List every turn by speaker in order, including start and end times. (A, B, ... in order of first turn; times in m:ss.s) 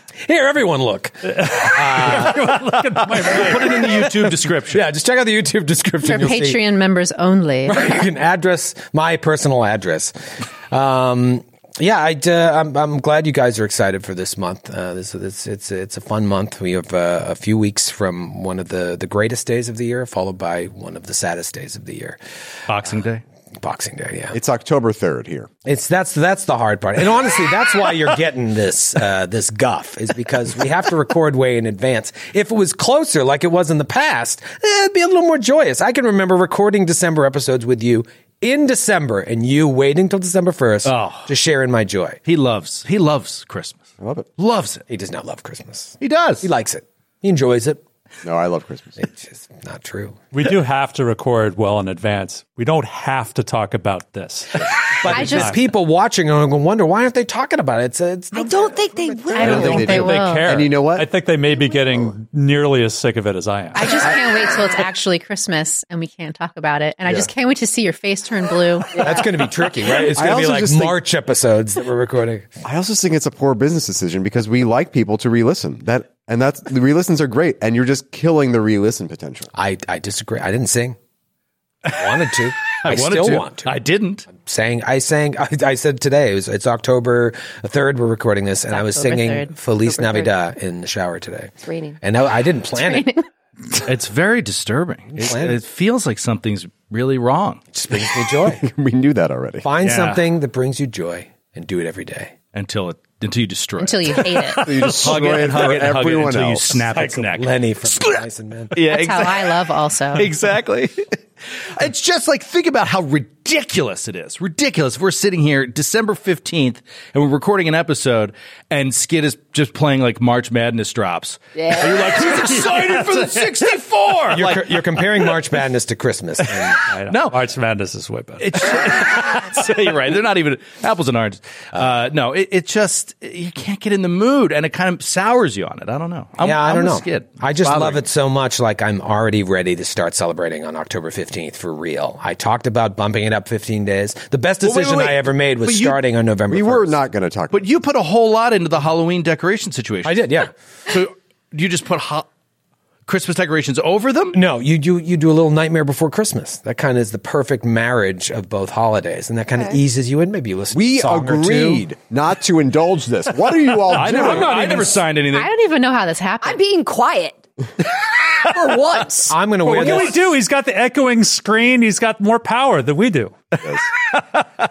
0:00.2-0:03.5 A
0:01.4-0:04.0 B
0:03.3-0:04.8 C
0:04.3-0:06.6 A
0:06.0-0:07.8 D
0:07.6-0:10.1 A
0:10.7-0:22.2 A
0:22.7-0:23.2 C
0:23.6-0:24.4 A
0:24.3-0:25.5 E
0:25.6-0:42.2 A
0:40.8-0:41.3 C
0:42.2-0:43.8 C
0:44.0-0:44.3 E
0:44.4-0:44.8 C
0:44.9-0:47.8 A
0:46.0-0:46.5 C
0:48.2-0:49.0 E
0:49.0-0:50.2 A
0:50.3-0:55.6 B
0:55.0-0:59.9 A
0:55.1-0:55.5 D
0:58.3-0:59.4 F
0:59.3-1:00.6 D
0:59.4-1:04.0 B
0:59.4-1:01.1 E
1:03.8-1:09.1 D
1:08.9-1:09.2 F
1:09.0-1:12.5 A
1:10.1-1:11.0 E
1:12.6-1:19.5 E
1:19.5-1:21.0 A
1:21.9-1:23.8 A
1:22.7-1:24.3 C
1:24.3-1:33.2 A
1:28.7-1:29.5 D
1:29.8-1:30.3 F
1:31.6-1:32.0 F
1:32.8-1:33.2 D
1:33.8-1:37.6 C
1:35.1-1:35.6 A
1:37.7-1:38.7 A
1:38.5-1:39.7 E
1:39.6-1:42.3 A
1:39.8-1:40.2 C
1:42.5-1:49.6 C
1:43.8-1:44.7 D
1:44.6-1:46.8 E
1:46.9-1:48.7 A
1:48.8-1:50.3 D
1:50.1-1:51.1 C
1:51.7-2:05.3 C
2:01.5-2:02.3 F
2:02.3-2:03.1 B
2:04.3-2:06.8 A
2:06.7-2:07.4 C
2:06.8-2:08.7 B
2:08.4-2:18.0 C
2:16.4-2:27.0 A
2:24.6-2:26.0 C
2:26.5-2:27.6 E
2:27.5-2:32.3 C
2:30.0-2:30.5 A
2:33.1-2:34.4 C
2:34.3-2:41.8 A
2:40.7-2:44.9 E
2:43.8-2:45.5 C
2:44.0-2:45.0 A
2:45.3-2:46.6 D
2:46.4-2:49.4 F
2:49.3-2:50.3 A
2:49.6-2:53.4 B